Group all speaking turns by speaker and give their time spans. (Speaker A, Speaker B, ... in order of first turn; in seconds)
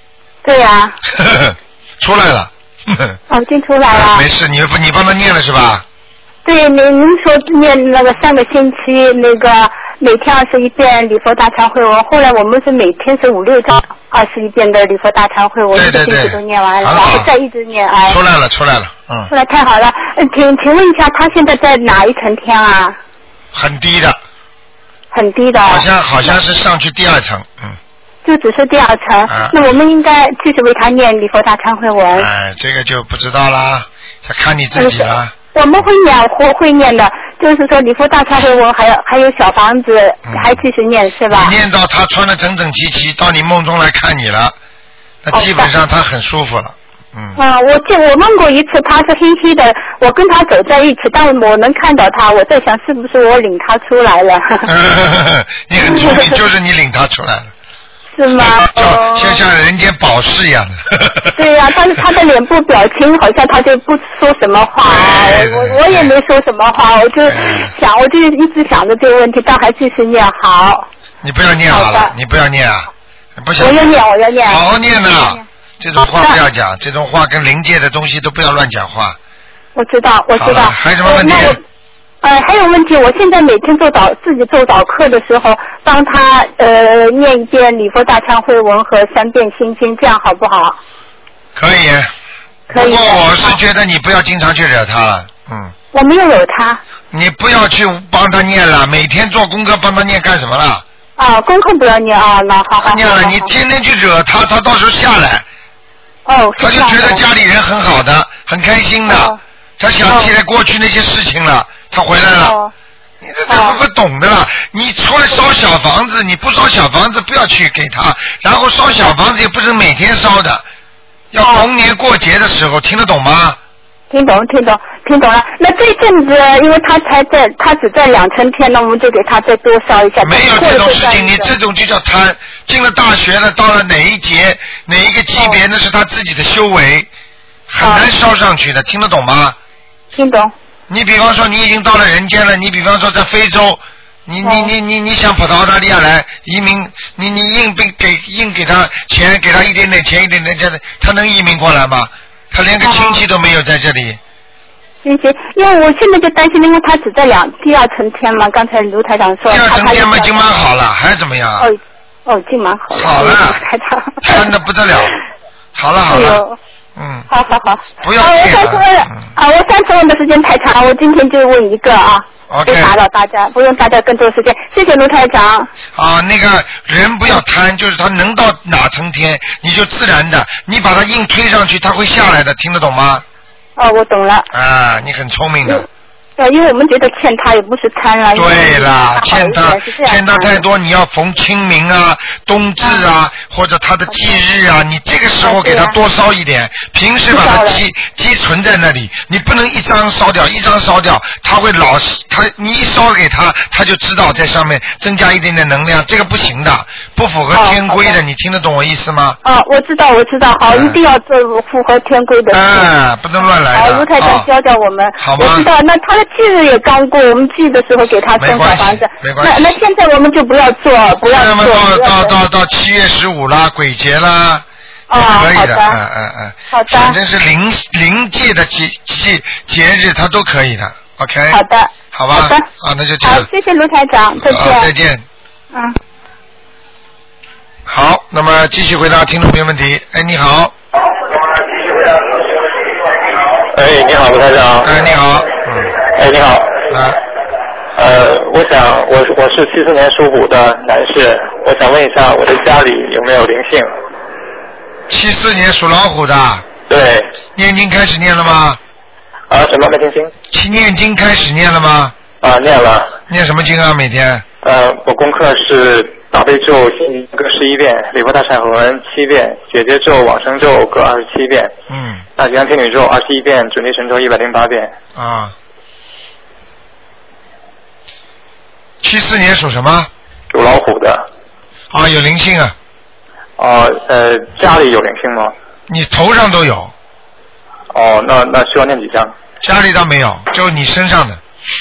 Speaker A: 0.4-1.0, 3.3-4.2, 6.4-18.2, 19.3-23.0, 25.1-25.9, 28.2-32.3, 34.8-41.5, 45.3-45.7, 47.4-54.7, 55.8-56.4, 58.1-59.4, 61.4-70.9, 71.7-72.1, 73.6-74.6, 76.0-76.4, 79.7-81.6, 82.2-90.8, 92.7-93.6, 95.9-96.8, 101.2-103.5, 106.2-107.2, 109.0-109.4, 110.0-110.3, 112.4-112.7, 113.5-113.8, 121.4-121.7, 124.1-131.5, 137.8-138.1, 140.1-140.5, 144.4-144.7, 152.8-153.2, 155.0-160.5, 161.6-164.5, 166.1-166.6, 167.3-175.7, 183.8-184.5, 186.4-190.6, 195.4-195.9, 197.3-197.8, 207.5-208.2, 209.4-212.9, 213.7-222.3, 225.1-226.0, 226.7-227.2, 231.5-232.7, 233.2-234.9
Speaker B: 1.1-3.2, 3.9-5.8, 15.7-17.3, 18.1-19.3, 23.5-24.2, 25.6-27.8, 29.3-29.7, 32.1-35.3, 40.3-40.6, 41.3-44.5, 45.2-47.4, 54.6-57.5, 58.4-61.4, 64.8-66.1, 67.3-67.7, 71.2-79.2, 80.3-81.6, 91.5-92.1, 92.7-95.7, 97.1-100.8, 102.8-105.4, 106.6-112.5, 113.2-120.6, 121.3-123.6, 130.2-137.1, 137.7-139.6, 140.9-154.2, 159.4-161.7, 162.9-163.6, 164.2-165.1, 165.7-166.4, 166.9-167.3, 168.0-169.3, 172.5-172.9, 175.9-183.2, 184.5-185.8, 188.3-209.4, 210.7-211.0, 212.5-214.5, 215.2-215.7, 218.3-219.7, 221.3-224.6, 225.2-231.6, 232.1-233.5, 234.4-235.2, 237.9-240.7, 244.8-245.9, 246.9-247.2, 255.1-256.6, 257.6-258.8, 260.5-262.1, 263.3-264.4, 271.9-272.2, 275.1-275.5, 279.0-280.1, 281.9-282.7, 285.9-286.9, 289.6-291.4
Speaker C: 241.7-242.4, 243.7-245.0, 246.0-246.9, 247.9-253.9, 256.9-257.3, 259.5-260.3, 262.4-263.2, 264.6-271.7, 272.4-274.9, 280.5-281.2, 283.6-285.5, 287.9-289.3